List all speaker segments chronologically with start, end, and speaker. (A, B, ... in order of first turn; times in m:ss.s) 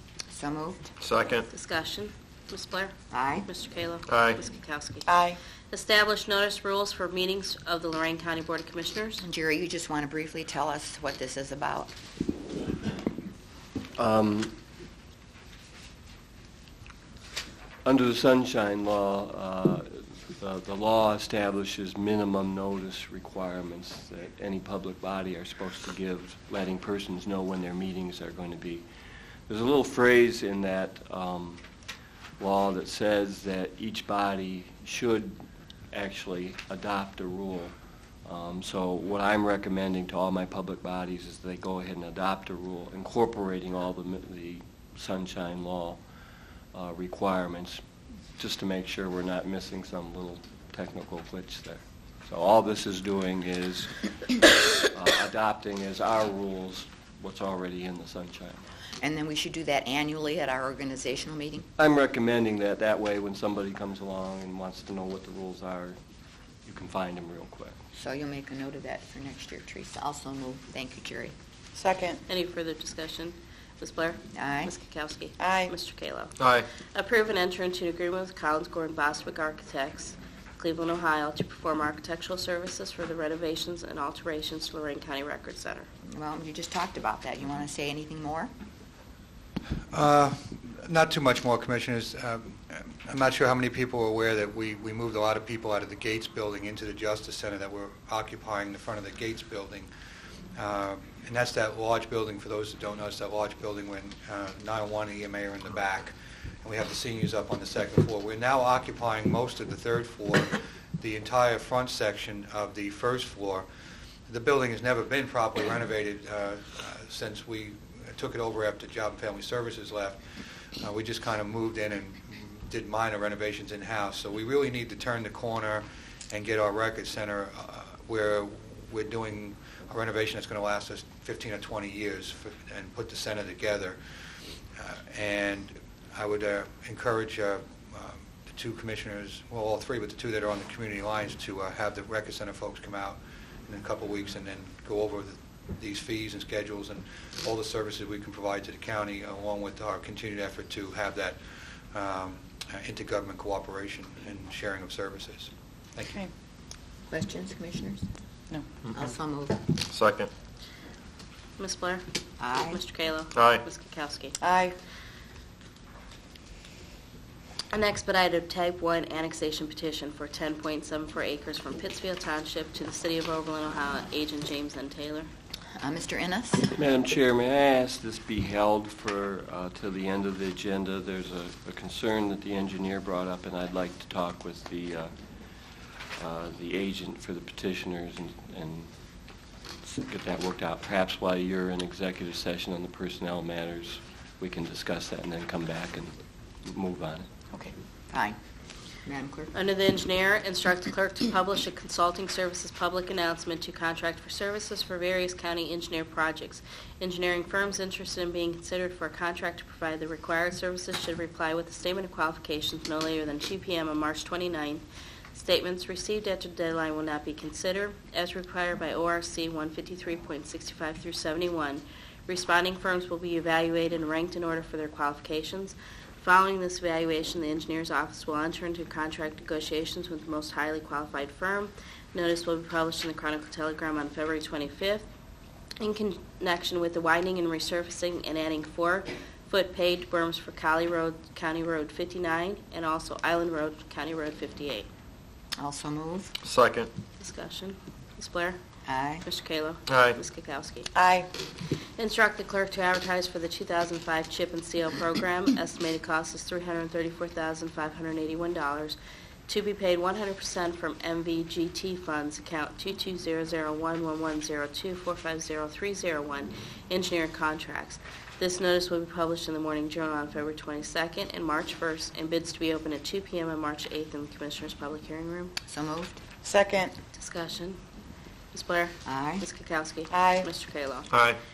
0:00.3-0:00.9 A
0:01.0-0:01.5 B
0:01.5-0:03.0 C
0:03.1-0:03.5 A
0:03.5-0:05.1 C
0:04.1-0:04.4 B
0:05.1-0:05.4 D
0:05.7-0:09.2 C
0:09.2-0:11.9 A
0:14.0-0:14.5 E
0:17.8-0:28.8 E
0:29.5-0:31.6 E
0:32.4-0:35.4 E
0:35.9-0:37.7 E
0:38.2-0:46.0 E
0:46.7-0:47.8 E
0:48.4-0:58.6 E
0:59.0-1:01.7 A
1:01.8-1:06.0 E
1:06.6-1:07.8 E
1:07.9-1:11.3 A
1:11.8-1:12.2 D
1:12.3-1:16.4 C
1:14.3-1:14.7 A
1:15.4-1:15.7 D
1:16.4-1:16.7 B
1:16.9-1:25.9 C
1:26.1-1:28.5 A
1:29.9-1:39.9 F
1:40.6-1:53.7 F
1:54.3-2:00.2 F
2:00.8-2:14.0 F
2:14.8-2:31.4 F
2:31.9-2:36.1 F
2:36.0-2:36.3 D
2:37.1-2:38.0 A
2:38.9-2:39.7 A
2:39.9-2:40.3 B
2:41.6-2:42.0 C
2:42.4-2:42.8 A
2:42.7-2:44.4 C
2:43.3-2:43.6 B
2:44.4-2:44.8 D
2:47.7-2:55.3 C
2:55.8-2:56.7 A
2:56.7-3:05.1 E
3:06.2-3:08.9 E
3:09.8-3:16.1 E
3:16.6-3:17.3 E
3:18.1-3:18.4 A
3:19.0-3:19.5 A
3:19.5-3:55.0 C
3:55.8-4:04.9 C
4:05.6-4:06.3 A
4:06.4-4:06.9 B
4:07.2-4:08.6 C
4:08.9-4:09.3 A
4:09.2-4:10.9 C
4:09.9-4:10.2 B
4:10.9-4:11.3 D
4:12.0-4:35.5 C
4:35.7-4:36.2 A
4:36.4-4:37.0 D
4:37.2-4:37.8 C
4:38.5-4:41.1 C
4:39.0-4:39.5 A
4:40.1-4:40.5 D
4:41.1-4:41.4 B